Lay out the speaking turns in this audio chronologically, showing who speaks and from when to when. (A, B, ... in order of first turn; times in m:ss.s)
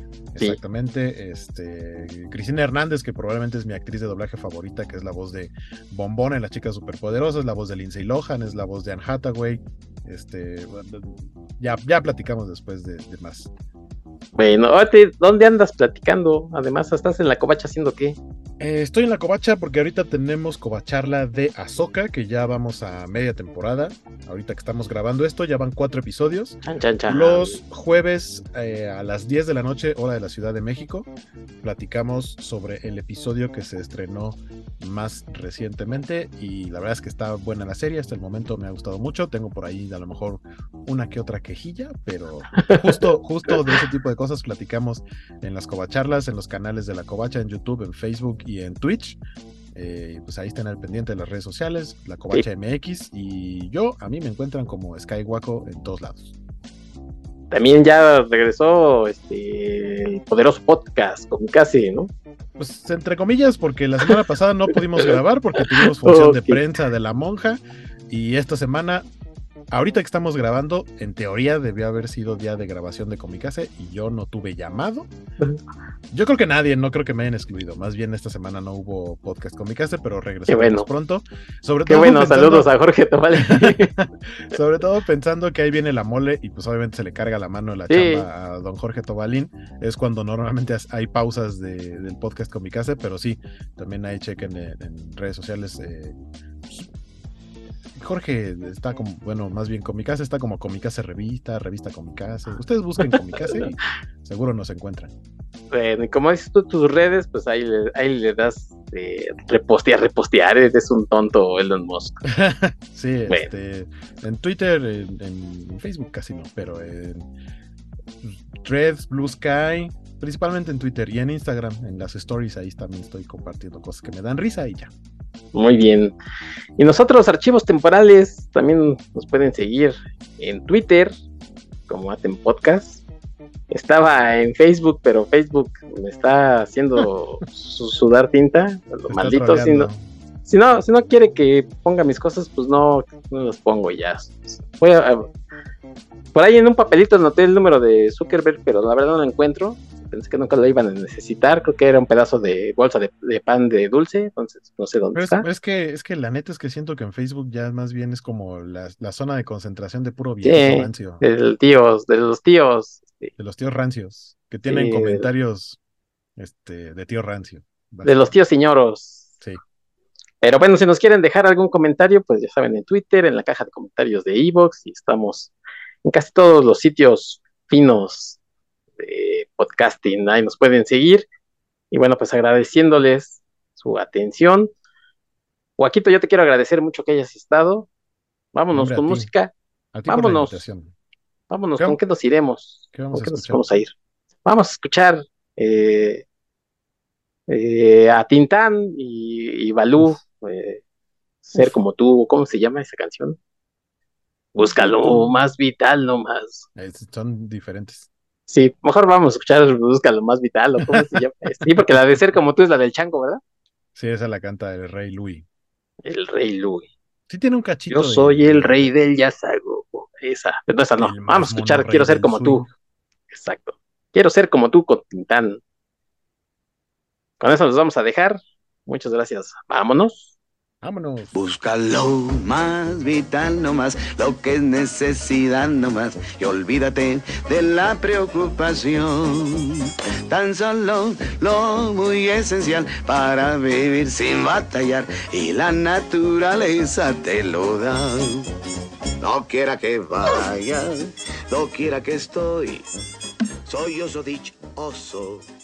0:00.3-0:13.5 A
0:14.4-0:18.2 B
0:18.6-0:31.1 A
0:26.7-0:27.6 B
0:31.6-0:49.2 A
0:49.8-0:56.3 A
0:57.5-1:02.1 B
1:02.6-1:09.1 A
1:05.8-1:06.6 B
1:09.7-1:15.1 A
1:16.1-1:22.7 A
1:20.5-1:20.9 B
1:21.9-1:23.9 B
1:23.4-1:36.2 A
1:27.9-1:28.3 B
1:38.0-1:45.1 A
1:45.7-1:52.2 B
1:52.3-1:57.3 A
1:58.2-2:04.9 A
2:05.5-2:06.2 B
2:06.8-2:11.2 B
2:11.9-2:13.0 B
2:13.7-2:19.9 B
2:19.1-2:20.1 A
2:20.5-2:25.2 B
2:26.3-2:35.4 B
2:35.2-2:41.2 A
2:40.4-2:43.3 B
2:43.4-2:45.8 A
2:44.7-2:45.3 B
2:46.4-2:48.4 A
2:48.0-2:49.4 B
2:50.4-2:55.5 B
2:56.0-2:58.4 B
2:59.0-3:01.3 B
3:01.9-3:04.7 B
3:05.8-3:07.9 B
3:08.5-3:09.5 B
3:08.7-3:09.3 A
3:09.9-3:10.9 A
3:10.1-3:10.6 B
3:11.5-3:13.9 B
3:12.9-3:13.7 A
3:14.5-3:16.2 B
3:17.5-3:20.8 B
3:21.4-3:23.4 B
3:24.6-3:26.7 B
3:26.8-3:28.1 A
3:28.5-3:33.4 B
3:34.0-3:35.4 A
3:36.0-3:36.9 B
3:37.3-3:38.9 A
3:37.9-3:42.6 B
3:41.0-3:42.7 A
3:43.3-3:45.6 B
3:47.4-3:50.3 B
3:50.8-3:51.4 A
3:52.6-3:54.3 C
3:54.9-3:59.0 C
4:00.3-4:03.2 C
4:03.7-4:04.8 C
4:05.4-4:05.7 C
4:09.2-4:10.7 C